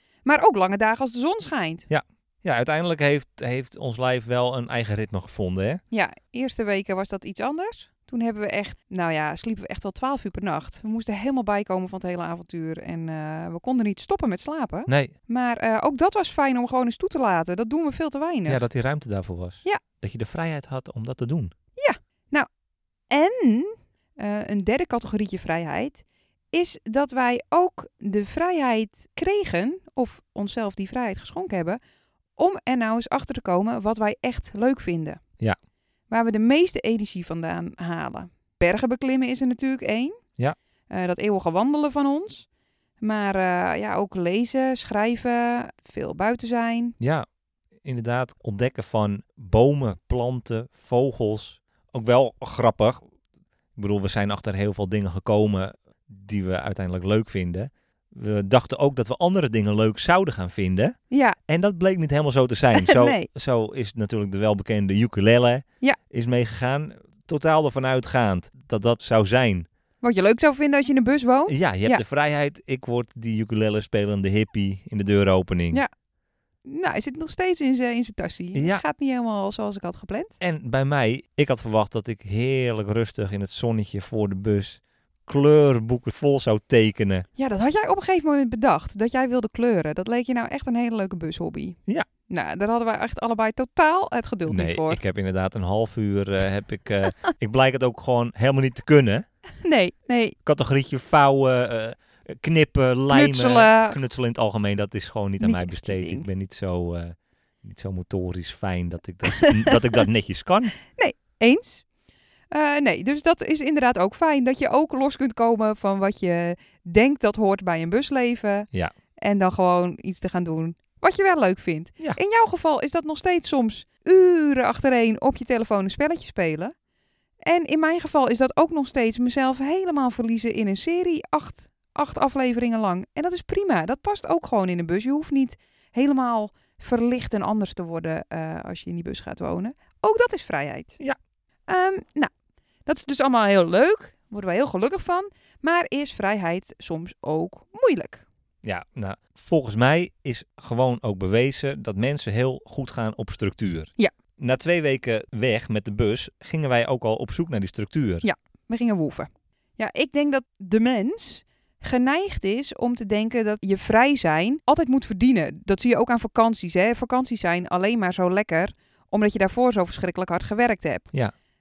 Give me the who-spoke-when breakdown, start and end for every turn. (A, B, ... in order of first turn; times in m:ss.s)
0:00.2-0:01.9 A
0:01.9-0:05.8 B
0:05.9-0:18.6 A
0:14.9-0:15.1 B
0:18.5-0:21.5 B
0:21.8-0:22.5 A
0:23.1-0:31.8 A
0:32.4-0:35.2 A
0:36.1-0:40.2 A
0:40.9-0:42.5 A
0:43.0-0:47.0 A
0:47.0-0:47.2 B
0:47.8-0:53.0 B
0:53.8-1:01.0 B
1:01.1-1:01.4 A
1:01.5-1:09.7 B
1:02.7-1:03.3 A
1:10.0-1:12.0 A
1:11.5-1:15.8 B
1:16.6-1:20.4 A
1:18.5-1:18.8 B
1:20.4-1:27.3 B
1:27.4-1:35.0 A
1:34.5-1:39.2 B
1:39.6-1:40.4 A
1:40.4-1:50.7 B
1:43.1-1:44.0 A
1:45.4-1:46.3 A
1:49.3-1:49.9 A
1:50.9-1:51.8 A
1:52.5-2:06.7 A
2:07.4-2:21.0 A
2:21.7-2:22.3 A
2:22.8-2:28.2 A
2:28.6-2:38.2 B
2:38.2-2:51.1 A